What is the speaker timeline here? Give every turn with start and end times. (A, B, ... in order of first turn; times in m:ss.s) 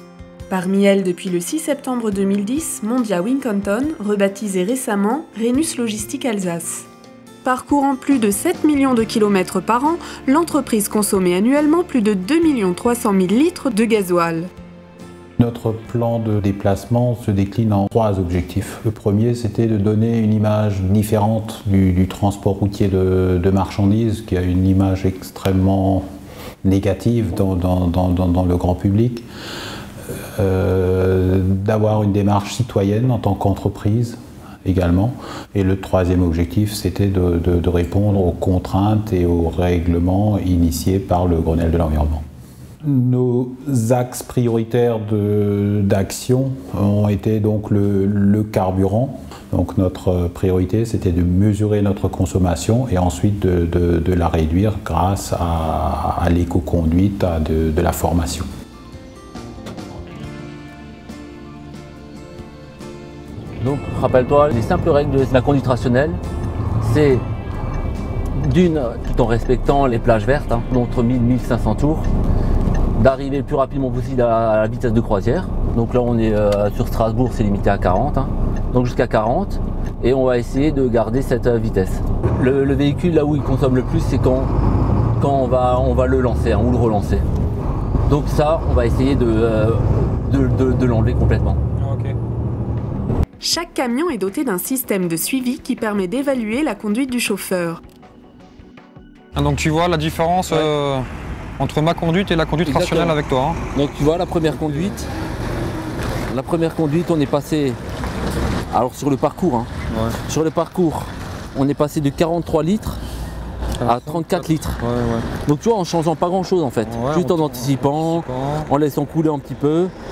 0:00.5-0:06.8 A
0:07.4-0:14.5 A
0:15.4-0:26.0 B
0:26.6-0:29.2 B
0:30.4-0:42.2 B
0:42.8-0:58.5 B
1:03.6-1:06.2 C
1:06.8-1:07.2 C
1:08.3-1:12.1 C
1:12.9-1:24.5 C
1:25.2-1:27.2 C
1:28.0-1:31.6 C
1:31.8-1:32.1 D
1:33.4-1:37.8 A
1:39.4-1:41.0 D
1:41.6-1:43.6 D
1:42.7-1:43.2 C
1:43.7-1:45.0 C
1:44.5-1:45.0 D
1:46.3-1:47.8 C
1:48.7-1:49.7 C
1:49.9-1:50.2 D
1:50.2-1:53.0 C
1:53.8-1:55.3 D
1:53.8-1:54.8 C
1:55.4-1:59.9 C
1:56.8-1:58.7 D